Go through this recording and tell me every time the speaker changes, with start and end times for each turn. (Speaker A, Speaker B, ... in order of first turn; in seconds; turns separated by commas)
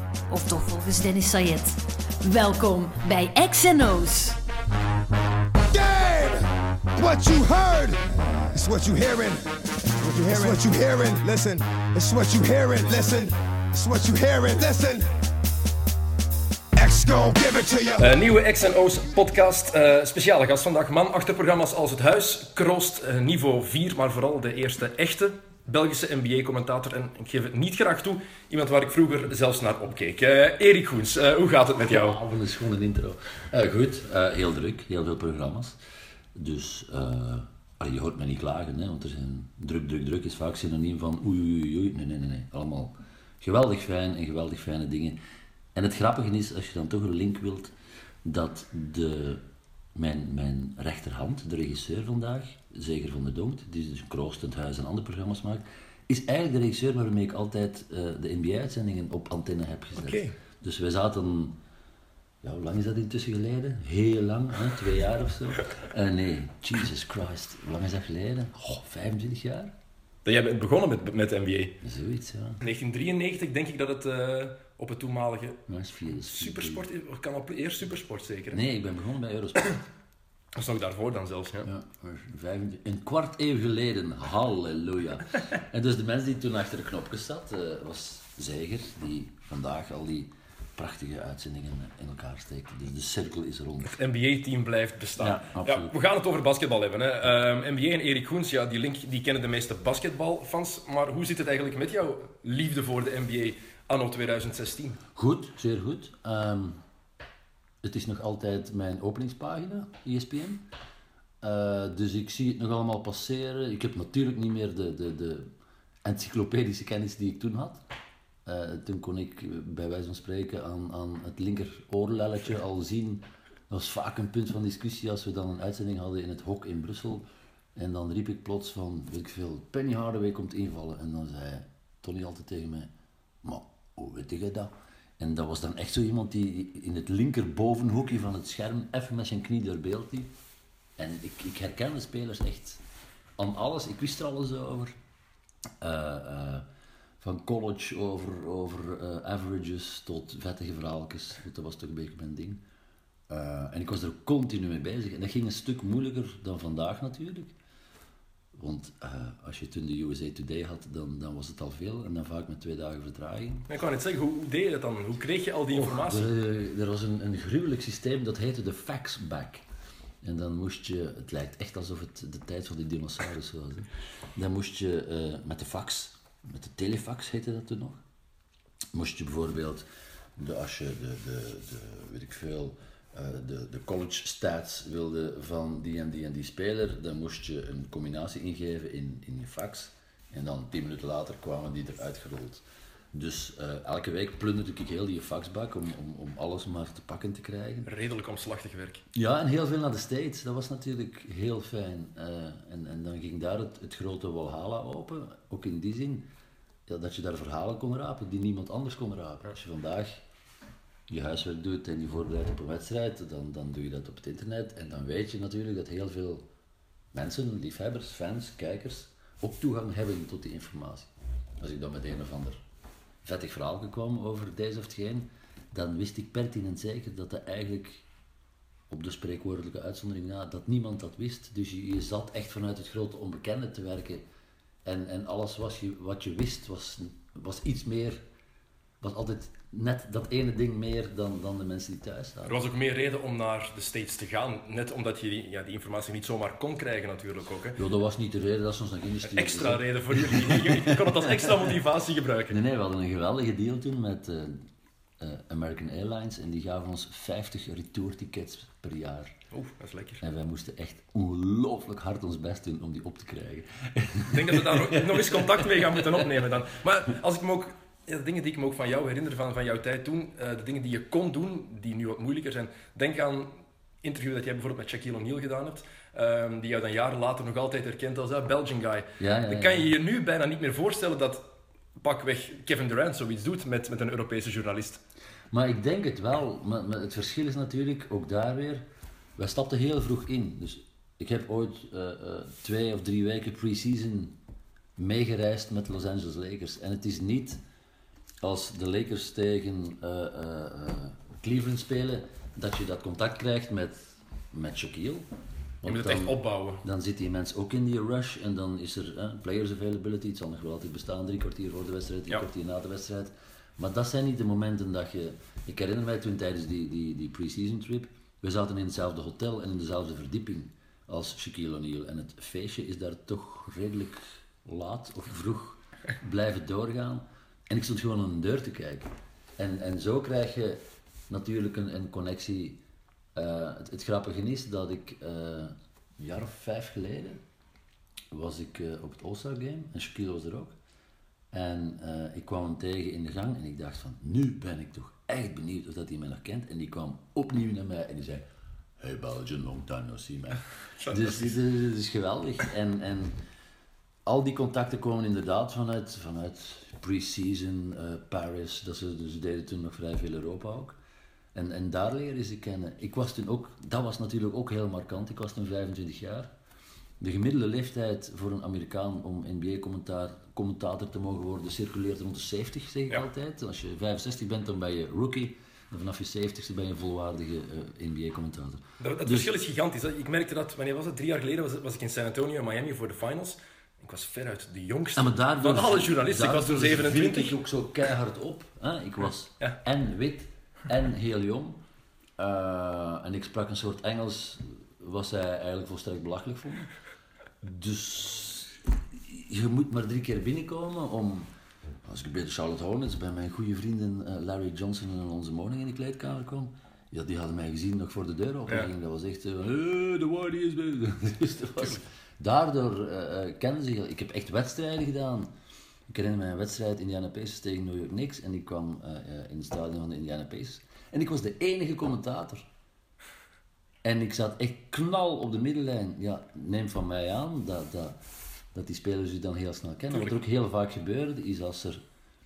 Speaker A: 0.3-4.4, Speaker B: 5.7-15.1, Speaker B: 16.8-18.1, Speaker C: 18.0-32.2, Speaker D: 31.8-35.8, Speaker D: 36.3-45.2, Speaker D: 45.7-47.7, Speaker D: 48.2-49.4, Speaker D: 50.0-61.6, Speaker C: 60.0-60.4, Speaker D: 62.4-69.7, Speaker C: 70.2-71.8, Speaker D: 71.8-72.6, Speaker C: 72.6-75.6, Speaker D: 75.7-76.9, Speaker C: 76.3-78.6, Speaker D: 78.5-79.8, Speaker C: 80.5-81.7, Speaker D: 81.6-93.9, Speaker C: 93.9-105.0, Speaker D: 95.2-96.0, Speaker D: 105.1-106.8, Speaker D: 107.8-110.6, Speaker D: 111.4-115.5, Speaker D: 116.0-117.8, Speaker D: 118.4-132.9, Speaker D: 133.4-140.3, Speaker D: 141.0-142.8, Speaker D: 143.4-144.9, Speaker D: 145.8-146.7, Speaker D: 147.2-152.6, Speaker D: 153.3-157.5, Speaker D: 158.5-163.7, Speaker C: 163.7-166.3, Speaker D: 165.7-169.7, Speaker D: 170.2-178.0, Speaker D: 178.9-179.8, Speaker D: 180.3-197.9, Speaker C: 197.8-199.0, Speaker D: 199.1-206.3, Speaker D: 206.9-210.2, Speaker D: 211.1-216.5, Speaker D: 217.1-222.6, Speaker D: 223.2-228.0, Speaker D: 228.9-234.2, Speaker D: 234.8-238.2, Speaker D: 239.0-242.6, Speaker C: 242.5-247.8, Speaker D: 247.8-251.7, Speaker C: 249.2-252.6, Speaker D: 252.5-254.7, Speaker D: 255.2-259.3, Speaker C: 259.5-260.2, Speaker D: 260.2-266.3, Speaker C: 264.3-281.4, Speaker D: 279.2-279.9, Speaker C: 282.0-285.0, Speaker D: 285.5-288.9, Speaker D: 289.4-294.4, Speaker D: 295.0-297.6, Speaker D: 298.4-305.3, Speaker D: 305.8-332.8, Speaker C: 305.9-306.8, Speaker D: 333.4-337.4, Speaker D: 338.3-340.8, Speaker D: 341.5-348.5, Speaker D: 349.0-353.4, Speaker C: 351.0-351.5, Speaker D: 354.2-361.0, Speaker D: 361.5-366.5, Speaker D: 367.2-379.5, Speaker C: 379.0-387.6, Speaker D: 385.2-391.8, Speaker D: 392.4-396.9, Speaker D: 397.6-401.5, Speaker D: 402.0-415.5, Speaker D: 416.1-422.7, Speaker D: 424.0-428.2, Speaker D: 428.7-432.0